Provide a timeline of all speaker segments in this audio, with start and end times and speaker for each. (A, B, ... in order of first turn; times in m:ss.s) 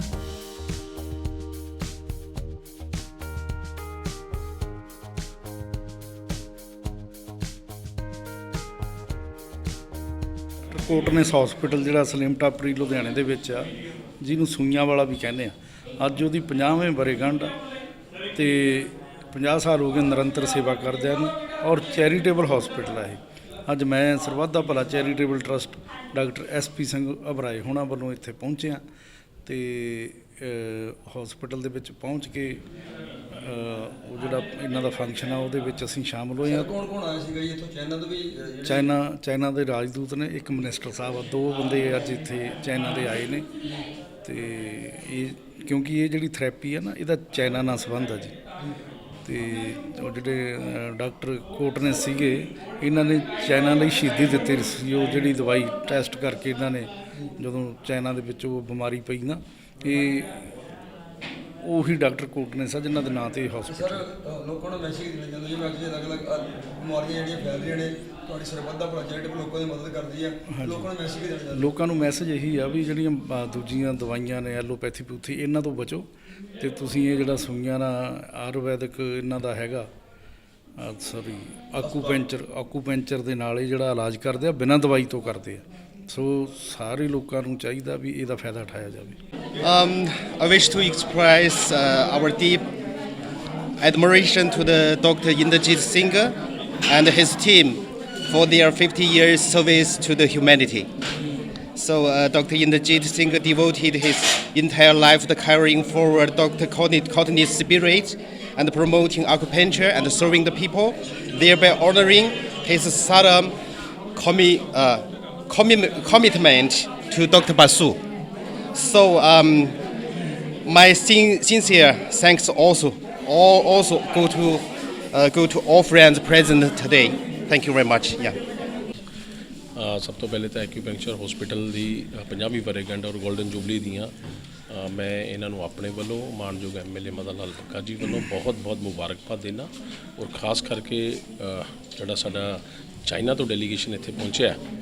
0:10.7-0:17.5 A
0:18.3-0:28.8 A
0:29.4-0:32.6 A
0:33.3-0:36.6 A
0:36.5-0:38.8 B
0:38.6-0:43.5 A
0:44.2-0:48.3 A
0:49.2-1:00.4 A
1:01.6-1:04.0 A
1:03.7-1:11.7 B
1:10.5-1:10.9 A
1:11.5-1:16.1 A
1:16.6-1:19.9 A
1:20.8-1:29.2 A
1:21.8-1:22.2 B
1:29.6-1:32.6 C
1:33.8-1:36.3 C
1:36.9-1:40.9 C
1:41.8-1:53.6 C
1:54.1-1:58.0 C
1:58.7-1:59.8 C
2:00.6-2:08.4 C
2:09.7-2:14.1 D
2:14.7-2:24.6 D